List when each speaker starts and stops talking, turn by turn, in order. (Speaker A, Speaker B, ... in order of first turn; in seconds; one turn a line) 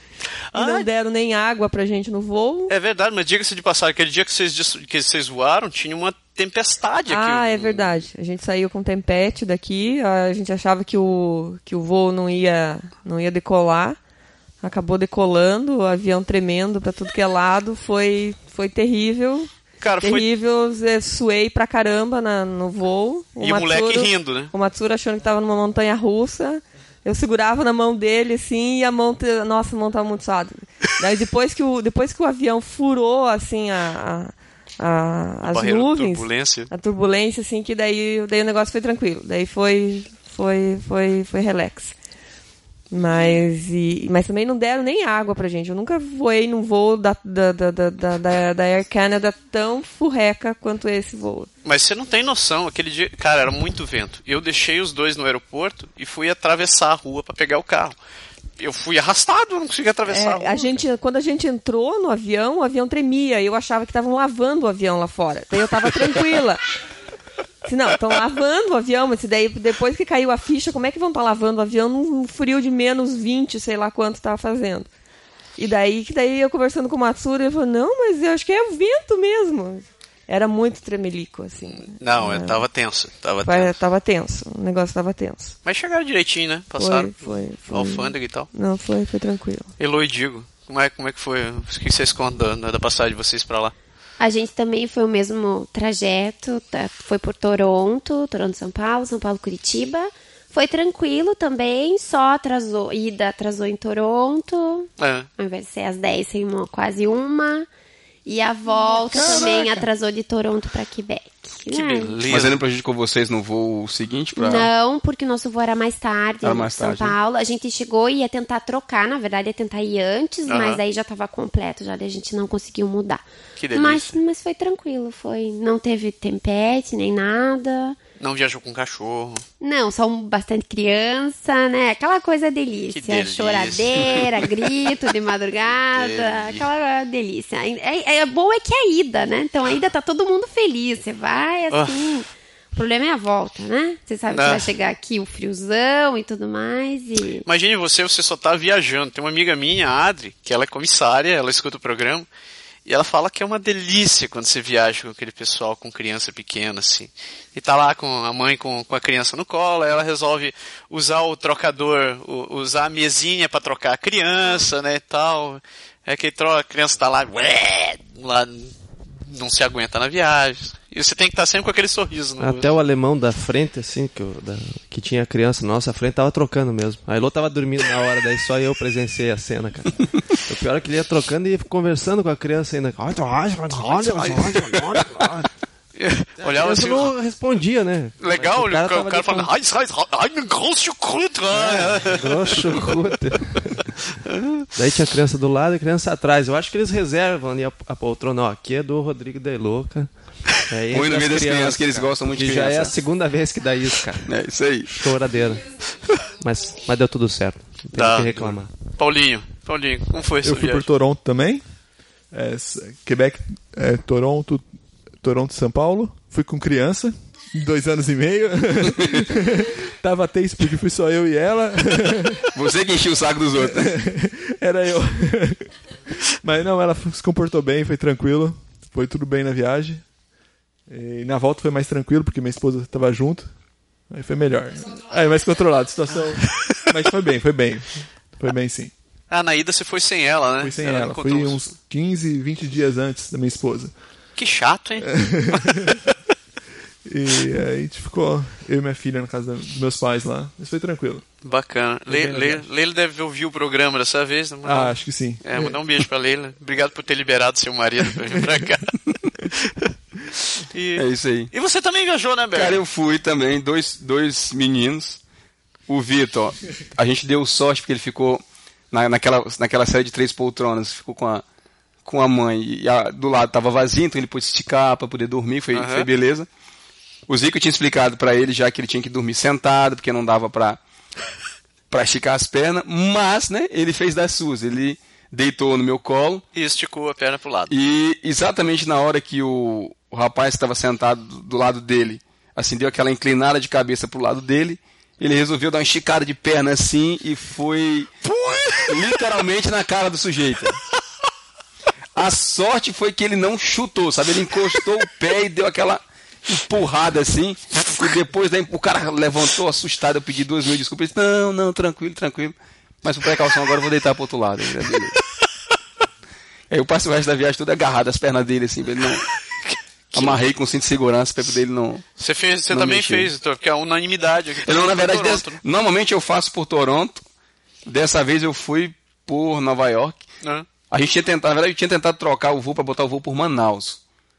Speaker A: 0.5-0.9
Speaker B: 0.5-2.7
Speaker A: 2.7-7.9
Speaker B: 7.1-14.0
Speaker B: 14.6-41.9
Speaker A: 19.8-20.3
Speaker A: 23.4-24.5
Speaker A: 35.5-36.7
Speaker B: 42.9-51.5
Speaker A: 43.1-43.4
Speaker A: 51.6-58.0
Speaker A: 58.6-60.8
Speaker B: 60.1-66.6
Speaker B: 67.7-74.9
Speaker B: 75.6-82.6
Speaker A: 81.8-83.7
Speaker B: 83.4-85.5
Speaker A: 85.6-88.5
Speaker B: 86.8-89.7
Speaker A: 89.8-93.7
Speaker C: 94.2-107.7
Speaker A: 105.0-105.3
Speaker C: 108.2-112.2
Speaker D: 109.2-109.6
Speaker A: 111.7-112.6
Speaker D: 112.3-114.7
Speaker C: 114.3-128.0
Speaker D: 116.4-117.2
Speaker A: 120.5-120.8
Speaker A: 123.6-124.2
Speaker A: 128.2-129.4
Speaker C: 129.6-147.4
Speaker A: 132.9-134.7
Speaker A: 135.9-136.7
Speaker A: 141.7-142.1
Speaker A: 144.3-144.7
Speaker A: 147.4-152.3
Speaker A: 152.8-172.7
Speaker E: 172.4-185.5
Speaker A: 183.9-184.5
Speaker A: 185.9-187.1
Speaker E: 186.4-189.5
Speaker A: 188.2-192.6
Speaker E: 191.5-193.8
Speaker A: 194.2-194.7
Speaker E: 194.7-200.1
Speaker E: 200.7-204.3
Speaker D: 200.9-203.0
Speaker D: 204.2-204.9
Speaker E: 204.8-205.7
Speaker E: 206.4-208.7
Speaker A: 207.9-210.9
Speaker F: 210.4-211.6
Speaker F: 212.3-214.7
Speaker F: 215.2-222.4
Speaker D: 222.5-223.9
Speaker F: 223.6-225.7
Speaker F: 226.4-230.0
Speaker F: 230.9-233.5
Speaker F: 234.1-238.9
Speaker A: 239.3-241.7
Speaker F: 240.6-243.9
Speaker A: 244.3-245.6
Speaker F: 245.0-246.0
Speaker F: 247.1-251.2
Speaker A: 251.4-258.9
Speaker F: 252.1-252.6
Speaker F: 254.6-255.8
Speaker A: 259.5-259.9
Speaker A: 260.7-262.8
Speaker D: 260.9-261.5
Speaker D: 262.5-265.2
Speaker D: 265.9-271.4
Speaker D: 272.0-276.5
Speaker A: 275.7-276.1
Speaker D: 277.3-280.8
Speaker D: 281.9-286.4
Speaker A: 286.5-287.7
Speaker D: 287.7-298.1
Speaker A: 298.3-298.9
Speaker D: 298.8-300.8
Speaker D: 302.1-315.2
Speaker D: 316.7-319.2
Speaker A: 320.1-320.4
Speaker D: 320.1-322.0
Speaker A: 322.2-325.6
Speaker D: 322.7-323.3
Speaker D: 324.6-327.2
Speaker D: 327.9-330.2
Speaker A: 330.4-330.7
Speaker D: 330.9-334.0